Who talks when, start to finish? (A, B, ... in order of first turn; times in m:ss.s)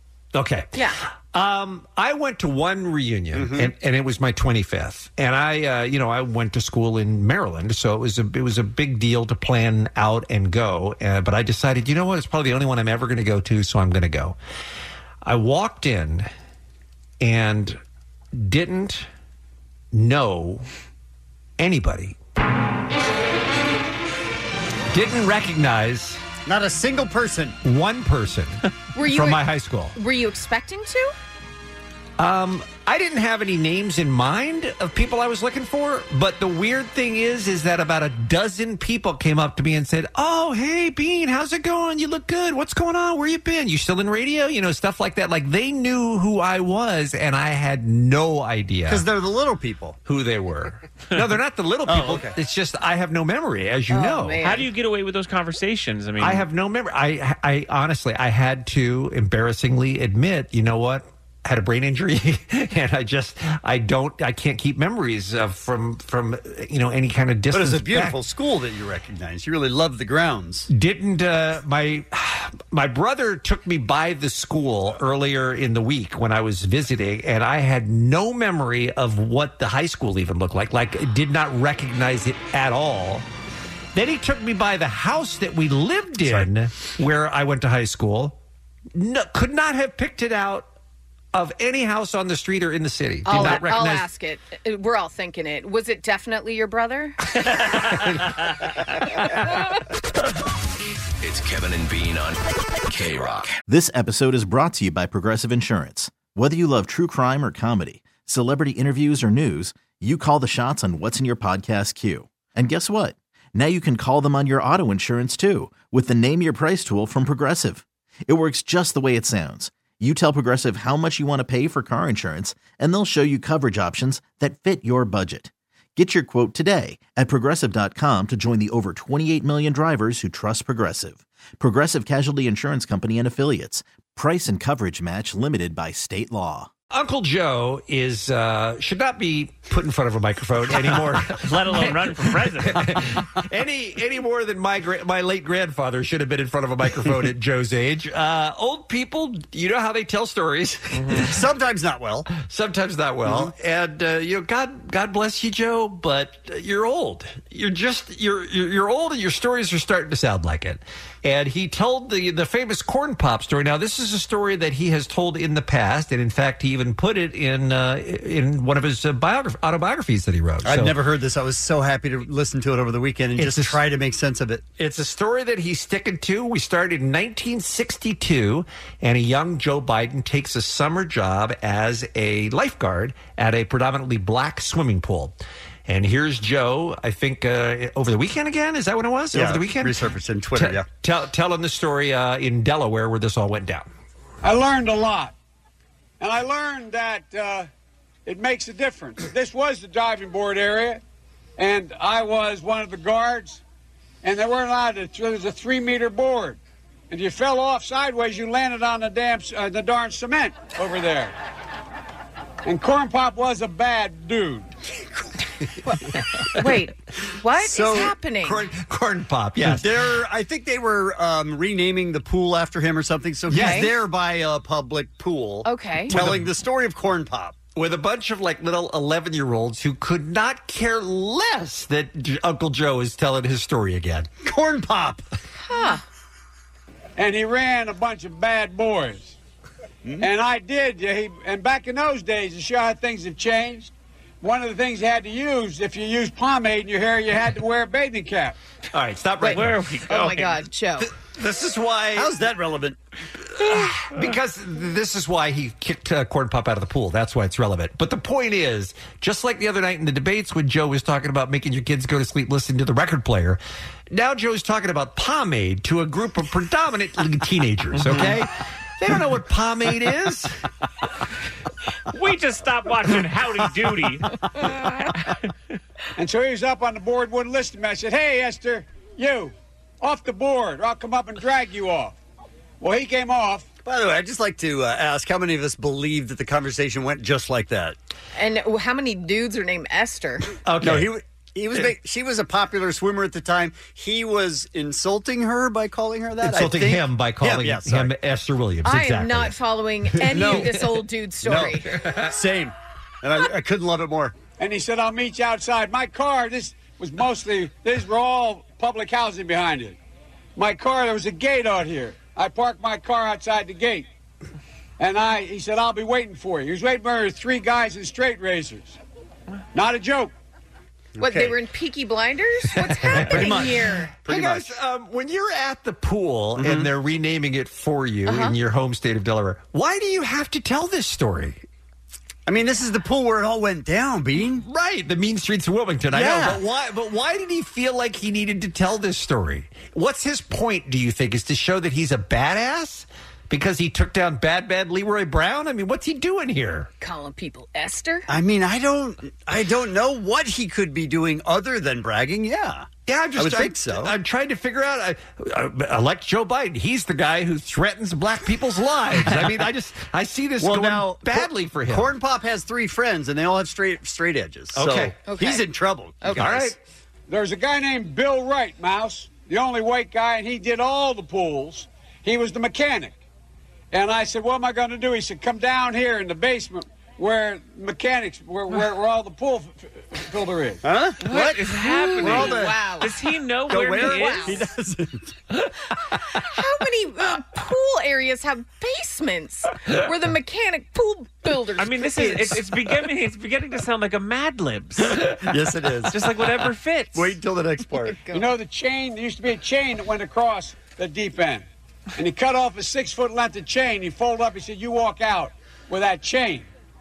0:00.3-0:14.4 A
0:03.3-0:03.7 B
0:15.2-0:16.3 A
0:17.2-0:17.8 A
0:18.3-0:19.1 A
0:19.9-0:20.6 A
0:21.6-0:22.2 A
0:24.9-0:26.2 A
0:26.4-0:27.6 B
0:27.6-0:30.0 A
0:28.9-0:29.4 C
0:29.9-0:31.1 C
0:32.2-0:49.0 A
0:48.9-0:50.0 B
0:50.0-0:54.5 A
0:51.9-0:52.3 B
0:53.9-0:54.7 C
0:54.4-0:56.4 D
0:56.2-1:08.2 A
1:07.5-1:10.7 B
1:10.7-1:23.2 A
1:23.9-1:28.4 A
1:28.9-1:30.7 A
1:31.3-1:34.1 A
1:33.2-1:37.2 C
1:41.2-1:43.5 E
1:43.7-2:16.7 F
2:16.9-2:31.3 A
2:21.4-2:23.1 D
2:30.9-2:31.2 D
2:31.2-2:32.3 B
2:32.3-2:51.0 A
2:33.2-2:33.5 B
2:50.6-2:54.7 B
2:53.4-2:53.8 A
2:54.8-3:10.0 A
3:09.3-3:10.8 B
3:10.5-3:13.9 A
3:14.4-3:15.3 G
3:16.2-3:17.7 G
3:18.2-3:21.0 G
3:21.6-3:23.6 G
3:24.2-3:26.6 G
3:27.1-3:31.3 G
3:32.6-3:34.7 G
3:36.5-3:38.7 C
3:37.6-3:38.1 B
3:38.4-3:40.0 A
3:39.6-3:47.6 B
3:43.5-3:43.9 A
3:43.5-3:43.9 C
3:45.6-3:46.1 C
3:46.1-3:46.5 A
3:47.7-3:54.3 A
3:54.4-3:55.2 B
3:55.7-3:56.0 C
3:57.2-3:59.4 G
4:00.2-4:08.6 G
4:08.9-4:09.8 A
4:09.4-4:11.1 C
4:09.5-4:10.6 D
4:11.0-4:12.3 A
4:12.1-4:13.0 B
4:13.6-4:30.6 A
4:28.0-4:28.3 D
4:32.1-4:34.3 D
4:35.2-4:35.4 D
4:36.2-4:42.1 G
4:42.8-4:43.6 G
4:43.8-4:48.0 B
4:48.3-4:50.4 C
4:50.6-4:51.1 A
4:50.8-4:58.1 B
4:56.4-4:59.6 A
4:58.8-5:01.9 C
5:00.2-5:00.7 A
5:00.3-5:00.7 B
5:01.4-5:04.4 B
5:02.0-5:02.3 A
5:04.6-5:10.0 G
5:10.6-5:14.1 G
5:15.0-5:19.0 G
5:19.7-5:20.3 G
5:21.2-5:21.6 B
5:21.2-5:24.2 C
5:22.7-5:31.6 A
5:24.2-5:24.7 B
5:26.6-5:26.9 B
5:28.3-5:28.6 C
5:32.5-5:34.6 B
5:34.6-5:46.9 A
5:36.1-5:36.6 B
5:47.0-5:48.3 C
5:48.3-5:54.1 B
5:53.0-6:02.1 A
6:00.6-6:06.7 B
6:04.7-6:05.2 A
6:05.2-6:05.7 C
6:06.2-6:06.5 C
6:06.3-6:06.8 A
6:07.3-6:13.2 G
6:13.9-6:20.8 G
6:20.8-6:22.8 B
6:21.2-6:24.6 D
6:21.8-6:23.1 C
6:23.7-6:25.3 B
6:24.0-6:24.6 C
6:26.3-6:32.6 C
6:31.8-6:35.4 D
6:35.2-6:36.2 B
6:36.1-6:37.4 D
6:37.1-6:38.2 B
6:38.0-6:38.5 C
6:38.3-6:41.6 G
6:42.2-6:46.7 G